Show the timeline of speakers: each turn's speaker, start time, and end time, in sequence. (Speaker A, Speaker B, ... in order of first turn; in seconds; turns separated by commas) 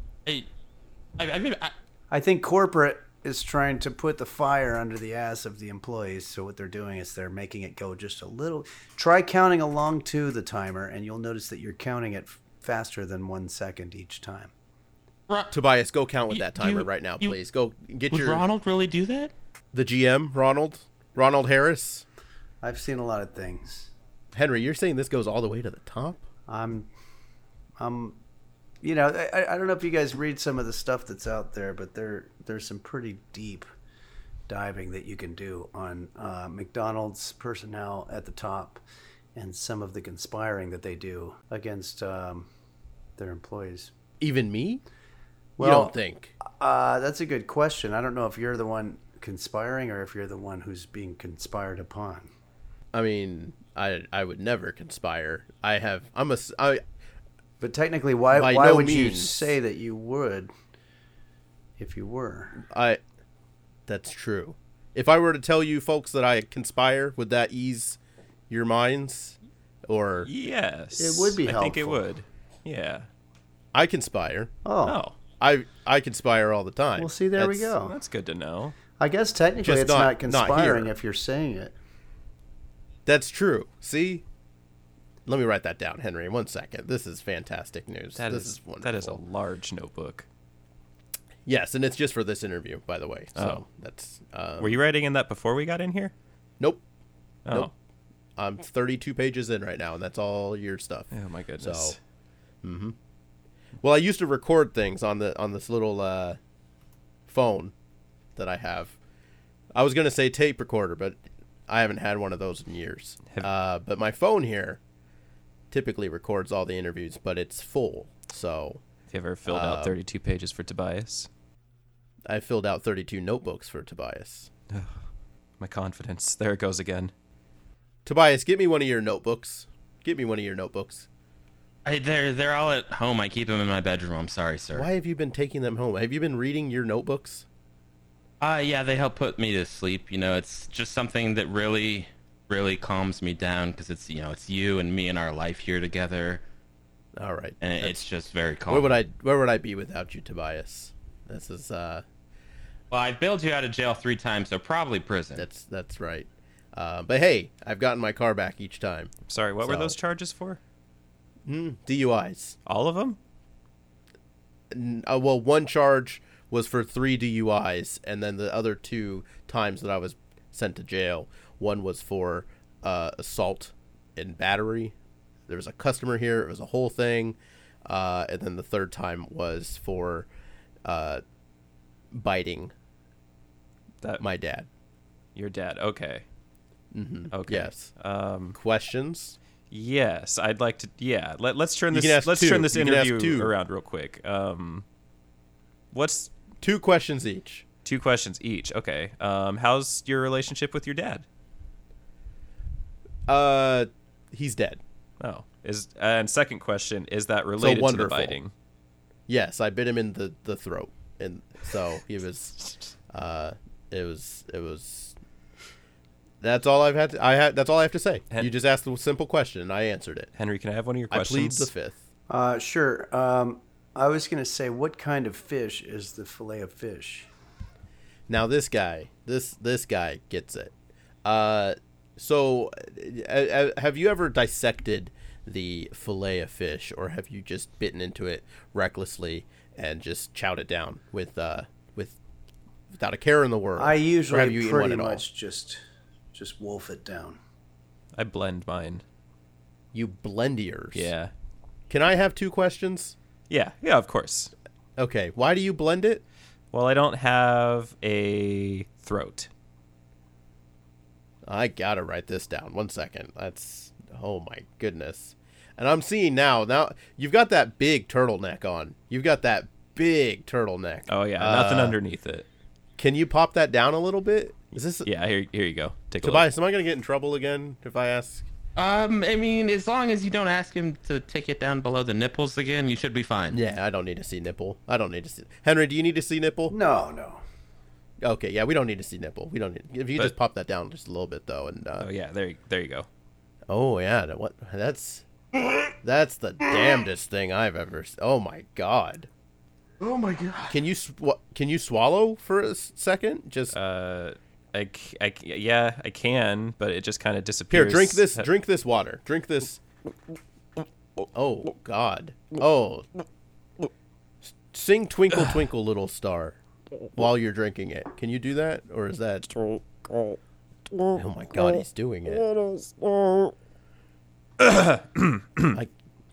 Speaker A: 1.2-1.7, Speaker B: 2.1-14.5, Speaker A: 15.3-15.5, Speaker C: 15.5-18.4, Speaker A: 16.3-17.4, Speaker A: 18.1-19.3, Speaker C: 19.7-22.1, Speaker B: 22.6-23.9, Speaker C: 24.3-26.2, Speaker B: 26.5-26.9, Speaker B: 27.8-28.2, Speaker B: 28.8-33.7, Speaker B: 34.5-38.8, Speaker B: 39.4-42.5, Speaker B: 43.2-43.9, Speaker C: 44.2-44.8, Speaker B: 45.6-52.3, Speaker C: 45.6-46.3, Speaker C: 52.9-56.8, Speaker B: 57.6-60.5, Speaker C: 58.3-59.5, Speaker B: 61.8-62.6, Speaker C: 62.6-63.0, Speaker C: 63.9-68.0, Speaker C: 68.5-70.3, Speaker D: 70.2-73.1, Speaker B: 71.0-72.0, Speaker C: 73.7-74.5, Speaker B: 74.7-75.0, Speaker D: 74.8-75.2, Speaker C: 75.4-77.7, Speaker B: 77.0-77.9, Speaker D: 77.8-78.8, Speaker B: 79.0-81.8, Speaker C: 79.6-80.9, Speaker C: 83.1-84.2, Speaker C: 85.3-89.2, Speaker D: 88.2-90.3, Speaker C: 91.5-94.8, Speaker D: 94.6-96.1, Speaker D: 97.5-97.7, Speaker C: 98.4-102.0, Speaker D: 101.1-102.0, Speaker C: 102.6-103.0, Speaker C: 103.8-106.4, Speaker C: 107.3-107.7, Speaker C: 108.4-109.0, Speaker C: 109.7-114.8, Speaker C: 115.7-118.8, Speaker D: 119.1-121.3, Speaker C: 119.5-120.0, Speaker C: 122.3-124.5, Speaker D: 125.6-127.1, Speaker C: 128.1-131.1, Speaker A: 131.8-134.9, Speaker C: 134.7-137.5, Speaker A: 138.4-146.4, Speaker C: 147.2-148.0, Speaker A: 147.6-148.9, Speaker C: 148.7-152.0, Speaker A: 152.9-155.4, Speaker C: 155.3-160.0, Speaker D: 159.3-160.6, Speaker C: 161.5-162.6, Speaker D: 162.7-163.2, Speaker C: 164.7-174.9, Speaker C: 175.5-180.3, Speaker C: 180.8-181.2, Speaker C: 182.1-182.7, Speaker C: 184.2-184.7, Speaker D: 185.3-186.2, Speaker C: 186.9-187.9, Speaker D: 187.3-188.6, Speaker C: 188.5-189.4, Speaker D: 189.7-194.8, Speaker C: 191.9-193.5, Speaker D: 195.9-196.3, Speaker C: 196.6-197.7, Speaker D: 197.8-201.2, Speaker C: 203.3-204.8, Speaker D: 205.2-208.5, Speaker C: 207.6-208.4, Speaker C: 209.3-215.2, Speaker C: 216.4-220.3, Speaker D: 220.4-221.7, Speaker C: 221.1-222.0, Speaker B: 222.3-227.3, Speaker C: 228.3-230.7, Speaker C: 231.2-242.2, Speaker C: 242.9-245.2, Speaker B: 243.8-245.8, Speaker B: 246.3-247.4, Speaker D: 248.1-249.0, Speaker C: 249.9-251.1, Speaker D: 250.9-251.3, Speaker C: 251.9-253.2, Speaker D: 253.5-254.5, Speaker C: 255.0-256.2, Speaker D: 256.7-259.5, Speaker C: 261.4-272.0, Speaker D: 271.1-272.5, Speaker C: 273.0-275.1, Speaker D: 275.0-276.5, Speaker C: 276.2-278.5, Speaker A: 278.8-283.6, Speaker C: 283.5-286.8, Speaker B: 286.7-287.4, Speaker C: 288.2-292.1, Speaker D: 292.0-293.1, Speaker C: 293.7-295.3, Speaker C: 296.0-299.3, Speaker A: 300.0-300.8, Speaker C: 300.7-303.8, Speaker D: 303.7-308.5, Speaker C: 307.7-309.8, Speaker C: 311.2-313.1, Speaker C: 314.4-316.6, Speaker C: 317.1-319.5, Speaker C: 321.1-322.7, Speaker D: 324.6-325.8